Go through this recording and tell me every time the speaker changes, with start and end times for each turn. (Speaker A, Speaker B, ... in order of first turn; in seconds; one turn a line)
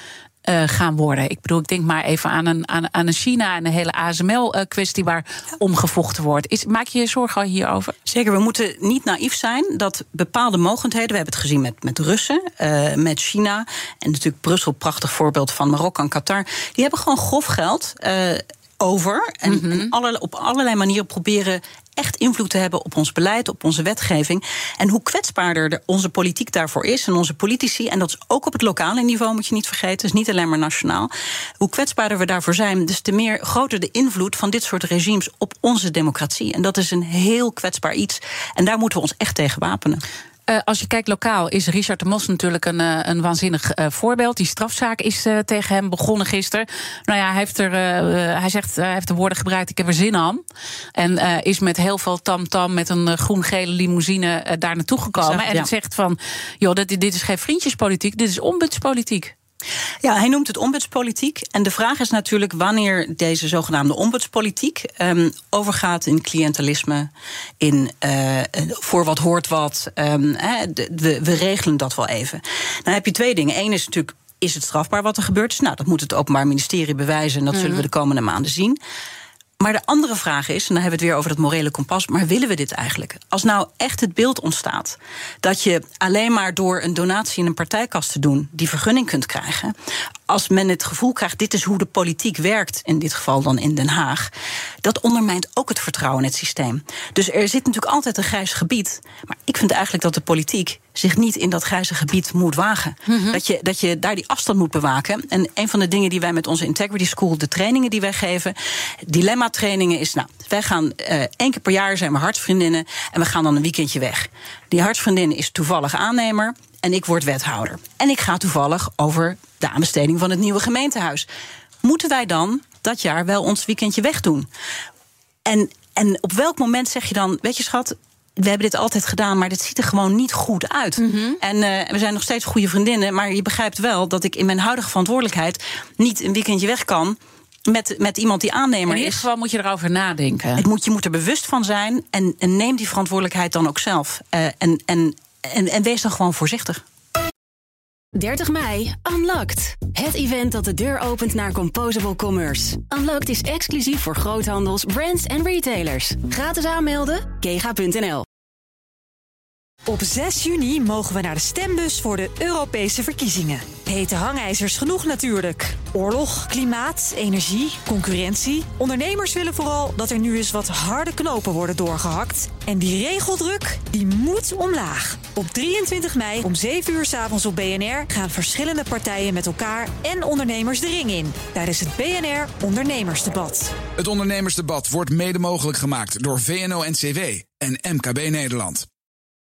Speaker A: 0.5-8.0
Speaker B: 8.1-40.0
Speaker A: 19.5-19.9
Speaker A: 40.5-50.4
Speaker A: 51.0-59.3
Speaker B: 55.2-55.7
Speaker B: 60.0-78.8
Speaker A: 77.5-77.8
Speaker B: 79.6-89.7
Speaker B: 90.3-94.3
Speaker B: 94.8-121.3
Speaker A: 103.1-103.4
Speaker B: 121.8-124.5
Speaker B: 125.5-139.3
Speaker A: 131.0-131.4
Speaker A: 138.9-140.6
Speaker B: 140.6-146.8
Speaker C: 148.2-158.3
Speaker D: 159.9-183.7
Speaker E: 184.0-188.9